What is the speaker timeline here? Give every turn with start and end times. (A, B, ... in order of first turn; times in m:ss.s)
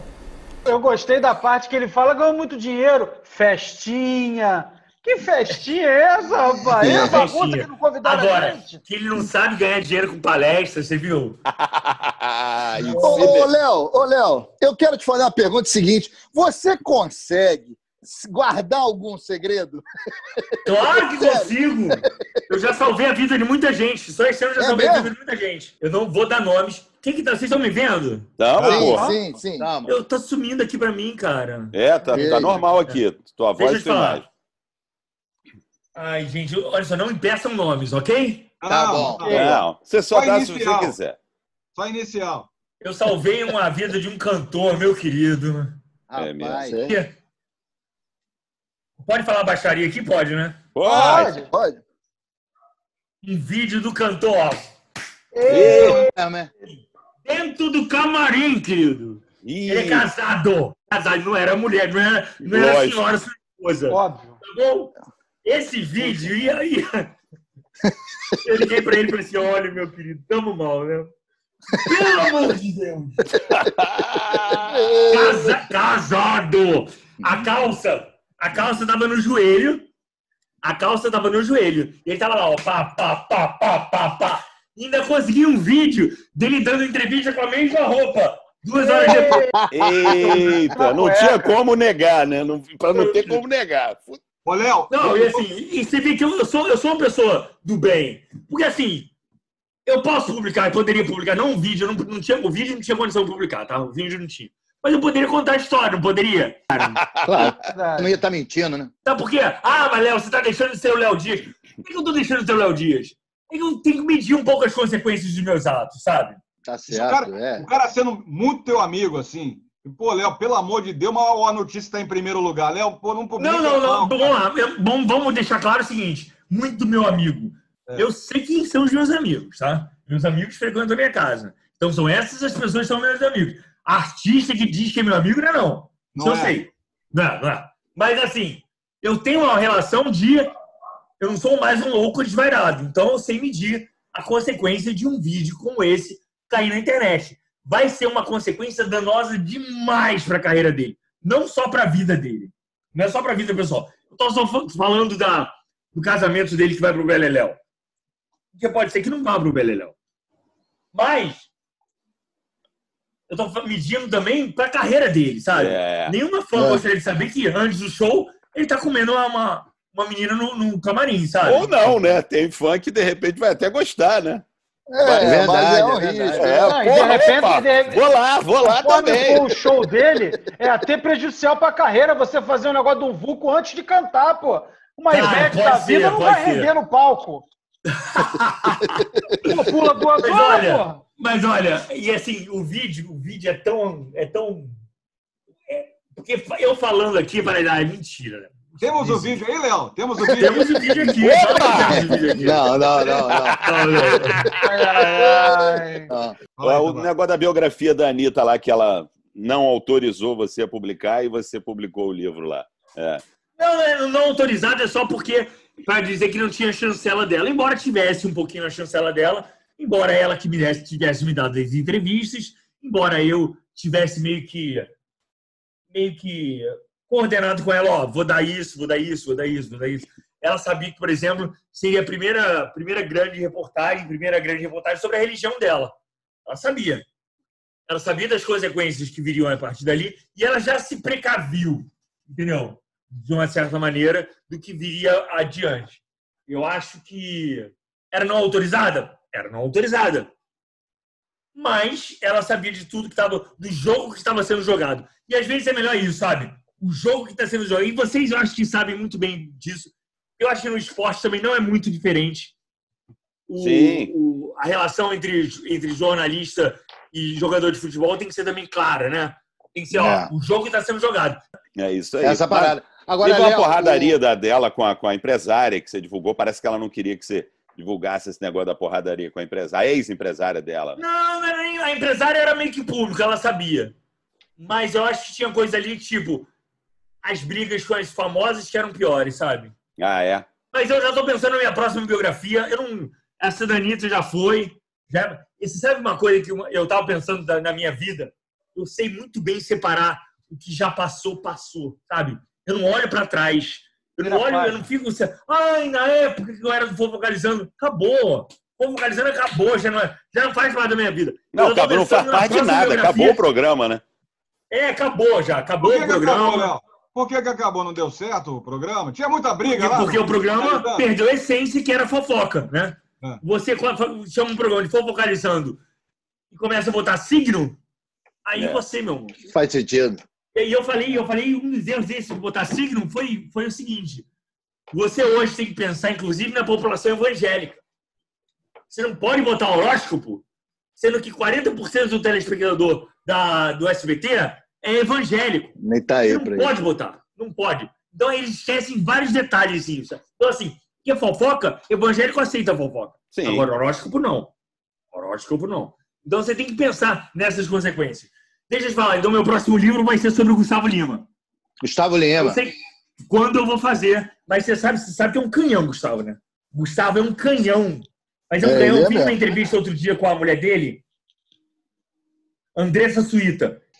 0:00.6-0:08.8 A
0:06.8-0:11.4 B
0:11.6-0:13.5 C
0:12.9-0:13.3 B
0:13.0-0:19.8 D
0:20.6-0:28.3 B
0:20.7-0:21.5 D
0:24.6-0:25.1 D
0:28.4-0:29.1 C
0:28.6-0:29.7 D
0:28.6-0:30.0 E
0:28.9-0:29.2 A
0:29.8-0:31.7 B
0:31.7-0:34.3 C
0:32.1-0:32.5 E
0:32.1-0:32.6 D
0:33.6-0:34.2 B
0:36.0-0:38.5 B
0:38.6-0:40.9 F
0:38.7-0:39.4 E
0:39.2-0:39.5 A
0:39.2-0:41.2 C
0:41.7-0:42.5 F
0:42.8-0:45.8 B
0:46.1-0:47.0 E
0:46.2-0:46.7 C
0:46.4-0:46.9 D
0:49.0-0:50.6 B
0:50.8-0:51.3 C
0:50.8-0:51.5 A
0:50.9-0:51.8 D
0:53.2-0:54.7 B
0:55.3-0:56.1 A
0:55.5-0:56.0 C
0:55.5-0:56.5 E
0:56.7-1:04.9 B
0:59.4-1:00.1 C
1:02.4-1:03.0 C
1:03.9-1:04.4 A
1:05.4-1:07.1 B
1:08.4-1:11.1 B
1:11.8-1:13.3 B
1:14.0-1:14.4 C
1:14.5-1:15.6 D
1:15.1-1:19.8 B
1:20.6-1:29.5 B
1:28.8-1:29.5 A
1:29.2-1:30.6 E
1:29.7-1:34.2 C
1:30.1-1:31.6 A
1:32.9-1:33.4 B
1:34.4-1:35.4 F
1:34.9-1:39.1 B
1:39.8-1:47.0 B
1:47.2-1:48.9 E
1:47.6-1:48.1 A
1:49.0-1:56.4 B
1:56.6-1:57.7 E
1:56.9-2:04.3 F
2:03.4-2:20.5 B
2:16.1-2:16.6 F
2:21.2-2:37.6 B
2:38.6-2:39.9 B
2:40.9-2:41.5 B
2:43.3-2:51.9 B
2:45.5-2:46.1 C
2:51.4-2:54.4 C
2:54.9-2:57.2 D
2:55.0-2:55.4 C
2:55.1-2:56.7 E
2:56.3-2:59.8 C
2:56.7-2:58.0 A
2:58.6-3:07.5 A
3:05.1-3:06.7 B
3:07.9-3:09.5 B
3:09.4-3:11.0 A
3:10.2-3:14.8 B
3:15.7-3:19.4 B
3:18.8-3:21.1 F
3:20.4-3:23.1 B
3:21.2-3:22.3 C
3:21.7-3:23.7 E
3:23.2-3:23.6 C
3:23.6-3:24.5 B
3:24.2-3:25.2 C
3:24.6-3:26.1 A
3:26.1-3:26.4 E
3:26.6-3:27.1 F
3:26.6-3:33.2 C
3:33.6-3:44.9 B
3:45.9-3:55.9 B
3:56.4-3:57.0 B
3:57.9-4:10.3 B
4:11.5-4:22.5 B
4:23.5-4:31.4 B
4:23.6-4:24.1 C
4:29.9-4:30.3 E
4:31.8-4:41.0 C
4:32.2-4:34.2 E
4:41.0-4:43.9 B
4:44.6-4:46.5 B
4:47.2-4:49.7 B
4:50.0-4:50.5 C
4:50.7-5:13.4 B
5:04.2-5:04.8 A
5:11.5-5:14.0 C
5:14.7-5:16.7 B
5:15.8-5:21.0 F
5:19.6-5:25.8 B
5:26.5-5:27.8 B
5:28.4-5:29.4 B
5:28.5-5:28.8 C
5:29.5-5:30.2 E
5:30.5-5:34.2 B
5:34.9-5:37.8 B
5:38.9-5:40.4 B
5:41.0-5:54.5 B
5:45.8-5:46.7 E
5:45.9-5:46.6 D
5:53.3-5:53.6 C
5:55.1-6:01.2 B
6:01.8-6:02.6 E
6:02.4-6:02.7 B
6:03.3-6:11.0 B
6:08.6-6:09.4 D
6:12.7-6:13.8 B